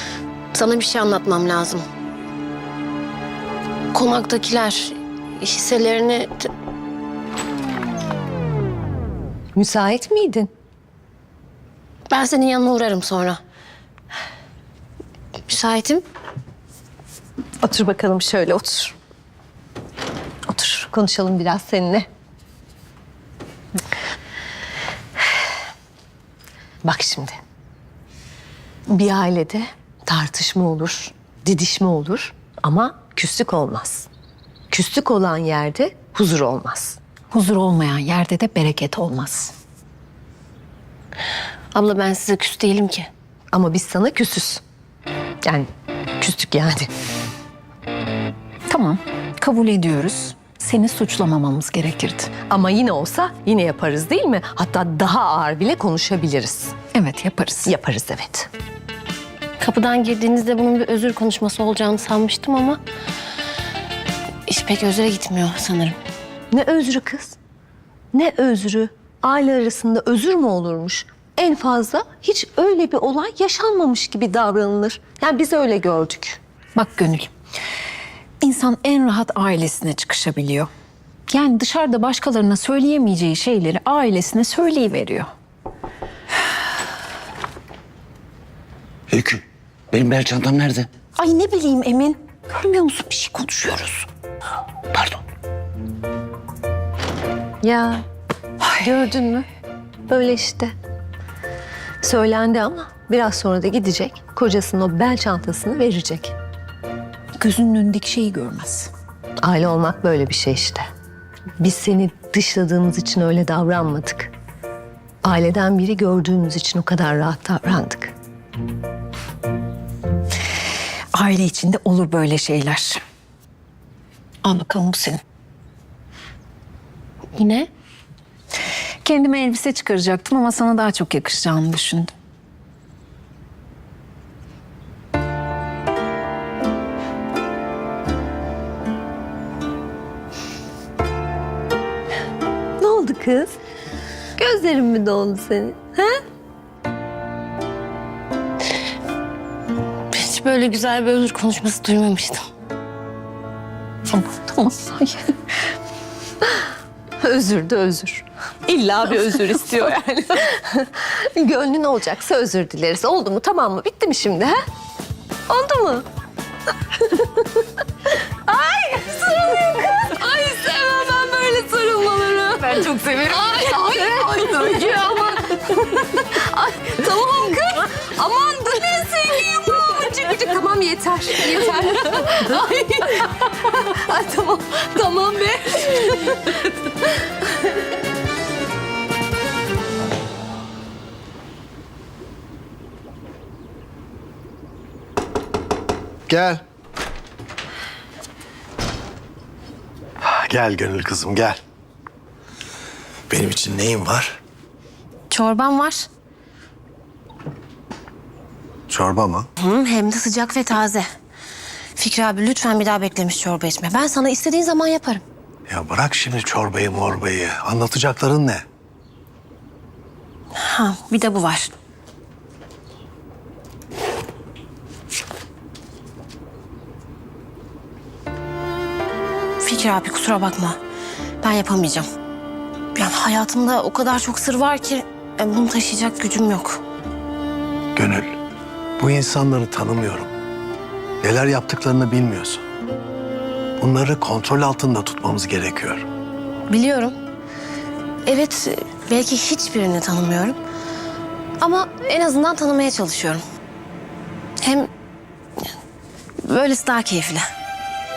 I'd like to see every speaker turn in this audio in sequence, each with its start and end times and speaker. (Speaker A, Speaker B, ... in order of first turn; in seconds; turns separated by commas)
Speaker A: 0.5-1.8, Speaker A: 3.9-6.5, Speaker B: 9.5-10.5, Speaker A: 12.1-13.4, Speaker A: 15.5-16.0, Speaker B: 17.6-18.9, Speaker B: 20.5-22.1, Speaker B: 26.8-27.4, Speaker B: 28.9-34.1, Speaker B: 34.7-37.0, Speaker C: 37.3-39.5, Speaker A: 41.7-43.1, Speaker B: 43.5-44.6, Speaker B: 45.4-46.9, Speaker C: 48.7-52.3, Speaker B: 52.5-56.7, Speaker C: 56.9-57.7, Speaker B: 57.6-58.5, Speaker A: 59.6-62.8, Speaker A: 64.5-66.0, Speaker B: 66.5-67.4, Speaker B: 68.1-76.4, Speaker C: 76.8-77.3, Speaker C: 78.4-80.7, Speaker C: 81.3-85.3, Speaker D: 89.1-90.9, Speaker C: 91.2-94.1, Speaker D: 94.9-95.2, Speaker B: 97.6-98.0, Speaker B: 98.7-99.5, Speaker B: 100.1-100.7, Speaker B: 102.0-106.3, Speaker C: 107.4-108.9, Speaker B: 109.4-110.9, Speaker B: 111.6-114.3, Speaker B: 115.2-118.1, Speaker C: 121.1-123.0, Speaker C: 124.4-125.2, Speaker A: 127.3-127.7, Speaker C: 129.0-132.1, Speaker B: 142.8-143.6, Speaker B: 144.4-146.2, Speaker A: 150.1-152.4, Speaker C: 154.1-155.3, Speaker B: 157.2-164.6, Speaker B: 165.5-166.1, Speaker B: 166.9-167.7, Speaker B: 168.4-187.3, Speaker E: 196.3-196.6, Speaker E: 200.2-201.6, Speaker E: 203.3-204.4, Speaker A: 205.3-206.1, Speaker E: 208.9-209.5, Speaker A: 209.6-211.1, Speaker A: 211.9-215.2, Speaker E: 215.7-218.6, Speaker A: 220.5-221.7, Speaker A: 229.6-230.8, Speaker A: 231.4-232.1, Speaker A: 232.9-236.8, Speaker E: 237.9-238.4, Speaker E: 239.0-240.3, Speaker E: 241.2-242.6, Speaker E: 243.8-246.1, Speaker A: 246.7-247.1, Speaker A: 248.2-250.6, Speaker A: 251.6-253.4, Speaker A: 254.6-254.9, Speaker A: 256.4-257.4